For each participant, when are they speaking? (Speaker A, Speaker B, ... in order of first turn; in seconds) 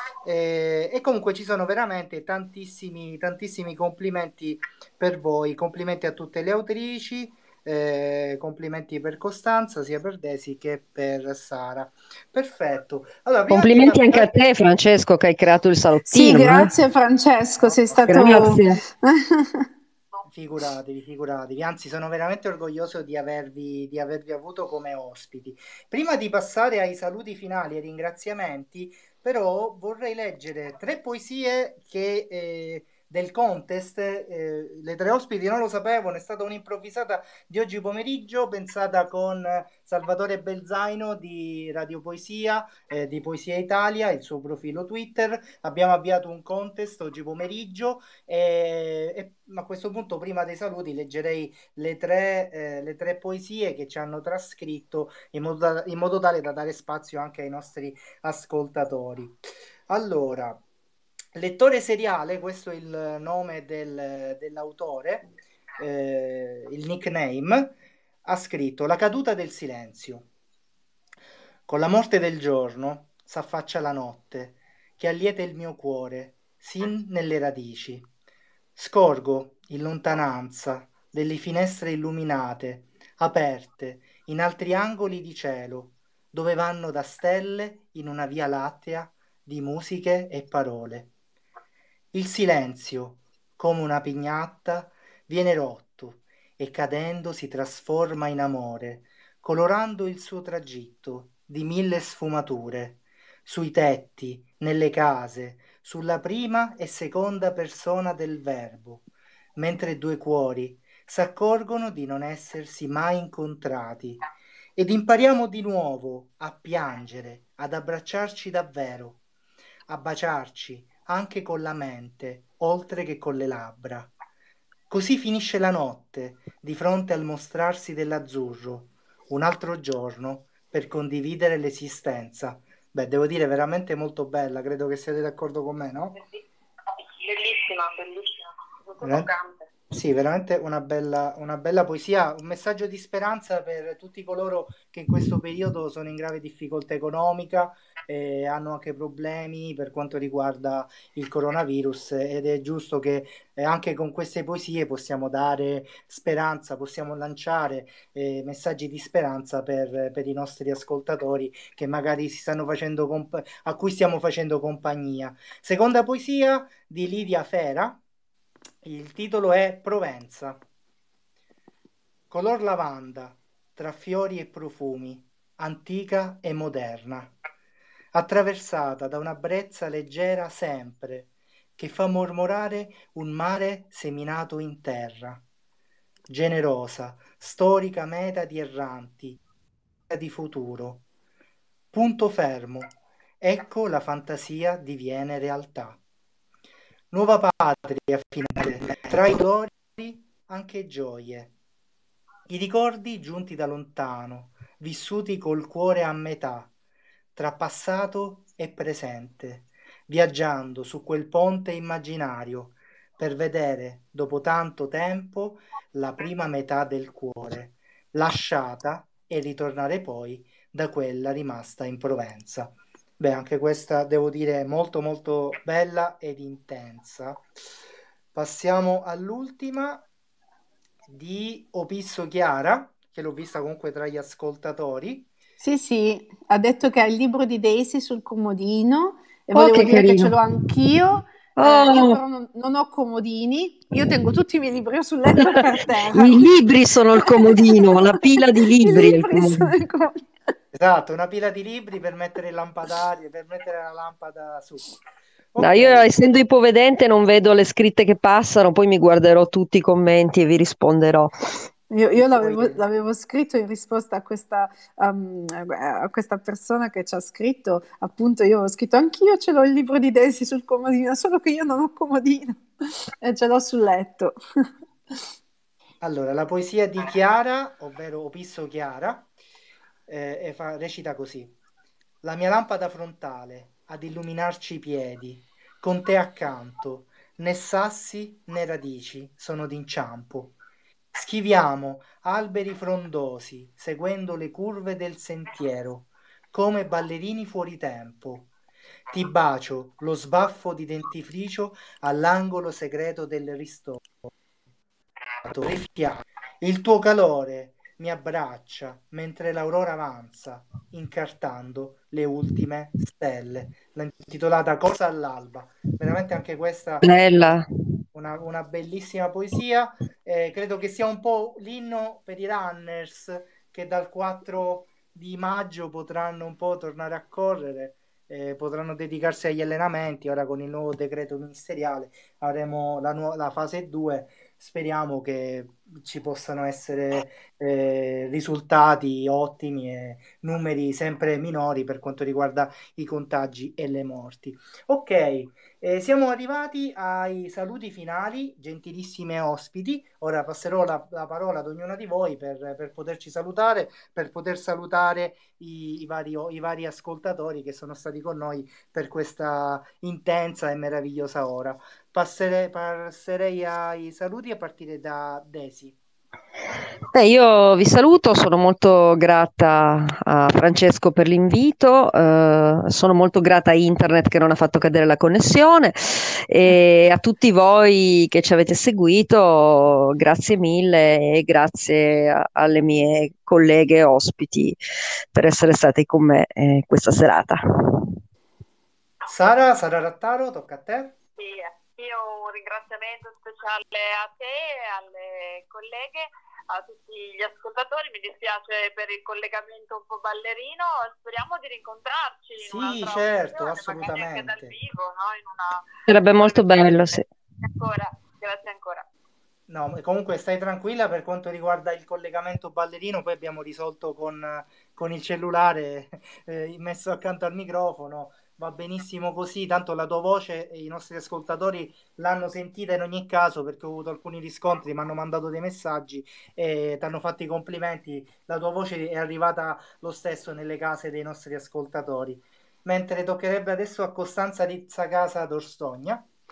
Speaker A: 0.2-14.3, 17.6-18.3, 20.3-60.6, 61.3-65.2, 65.8-67.7, 68.2-70.3, 71.7-78.1, 78.8-91.1, 92.1-109.0, 109.6-114.2, 114.8-119.2, 119.9-124.1, 124.9-136.2, 139.0-139.3, 139.9-168.0, 168.8-170.6, 172.3-177.3, 178.1-185.4, 186.3-189.4, 190.1-191.0, 191.9-196.0, 197.1-201.5, 202.5-206.7, 207.3-227.4, 228.3-230.0, 231.1-235.3, 250.7-254.9, 255.5-256.1, 262.1-262.8, 276.0-279.3, 280.1-281.5, 282.2-290.5, 291.1-298.5, 299.1-304.3, 305.4-317.6, 318.1-365.9, 389.3-391.1, 402.6-404.8, 409.7-436.2
Speaker B: 13.5-16.7, 18.1-18.8, 239.5-240.4, 241.6-242.2, 245.4-249.7, 255.6-261.3, 317.0-317.6, 367.1-384.8, 385.3-388.1, 406.1-407.2
Speaker C: 16.1-19.6, 235.6-246.4, 247.2-250.3, 261.9-272.6, 273.2-274.3
Speaker D: 136.1-139.7, 391.4-409.1